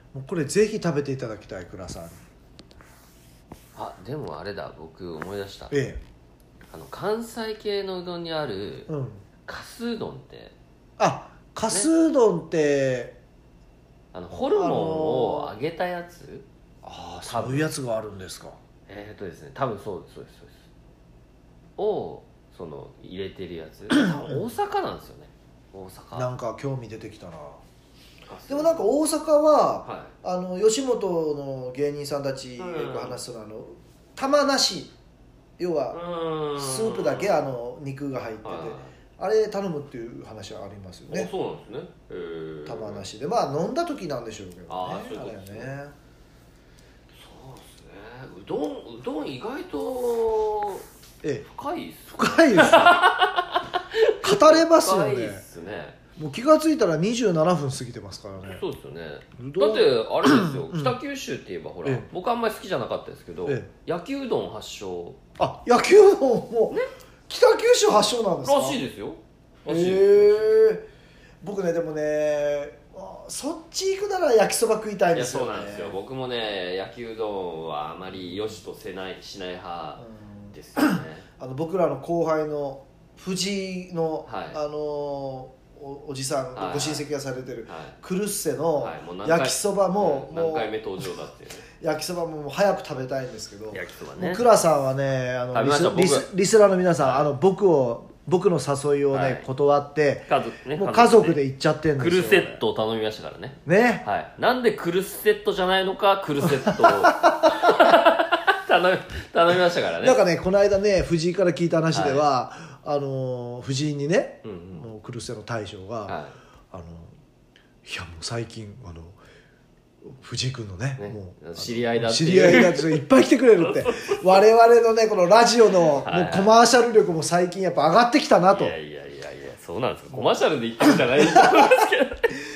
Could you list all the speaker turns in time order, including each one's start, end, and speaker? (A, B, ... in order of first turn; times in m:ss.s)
0:00.1-0:02.2 A
0:03.8-0:05.8 B
0:05.7-0:06.0 A
0:06.7-0:08.9 B
0:08.9-0:09.2 A
0:09.5-0:10.6 B
0:11.0-0:13.2 A
0:14.1-0:16.5 B
0:14.5-0:15.5 A
0:16.8-0:18.6 A
0:17.2-0:17.7 B
0:18.9-0:20.7 B
0:21.8-0:26.3 B
0:24.0-0:24.4 A
0:26.2-0:27.6 A
0:28.3-0:28.8 B
0:28.5-0:34.9 A
0:29.8-0:30.1 B
0:32.6-0:33.2 B
0:35.6-0:36.0 A
0:35.9-0:37.5 B
0:36.6-0:41.3 A
0:38.4-0:38.9 B
0:41.1-0:43.1 B
0:42.7-0:46.0 A
0:44.7-0:45.8 B
0:47.2-0:50.9 B
0:51.5-0:56.0 B
0:52.1-0:53.0 A
0:54.2-0:55.4 A
0:56.2-0:58.6 A
0:58.4-1:05.2 B
0:59.4-1:01.0 A
1:05.4-1:08.8 A
1:08.4-1:10.5 B
1:09.7-1:10.9 A
1:11.4-1:16.0 A
1:15.1-1:21.3 B
1:18.3-1:18.6 A
1:20.0-1:31.1 A
1:24.2-1:24.6 B
1:26.6-1:27.0 B
1:27.7-1:28.0 B
1:28.8-1:31.7 B
1:31.8-1:42.6 A
1:33.7-1:34.4 B
1:35.5-1:36.3 B
1:37.0-1:37.3 B
1:39.1-1:39.5 B
1:40.3-1:41.4 B
1:42.0-1:50.2 B
1:43.7-1:44.0 A
1:46.5-1:47.7 A
1:50.0-1:56.2 A
1:51.9-1:52.2 B
1:54.4-1:54.9 B
1:56.1-1:56.4 B
1:56.7-1:57.1 A
1:57.8-1:59.2 A
2:00.0-2:08.8 A
2:01.0-2:03.1 B
2:03.6-2:04.4 B
2:06.0-2:06.6 B
2:08.5-2:12.4 B
2:10.1-2:11.7 A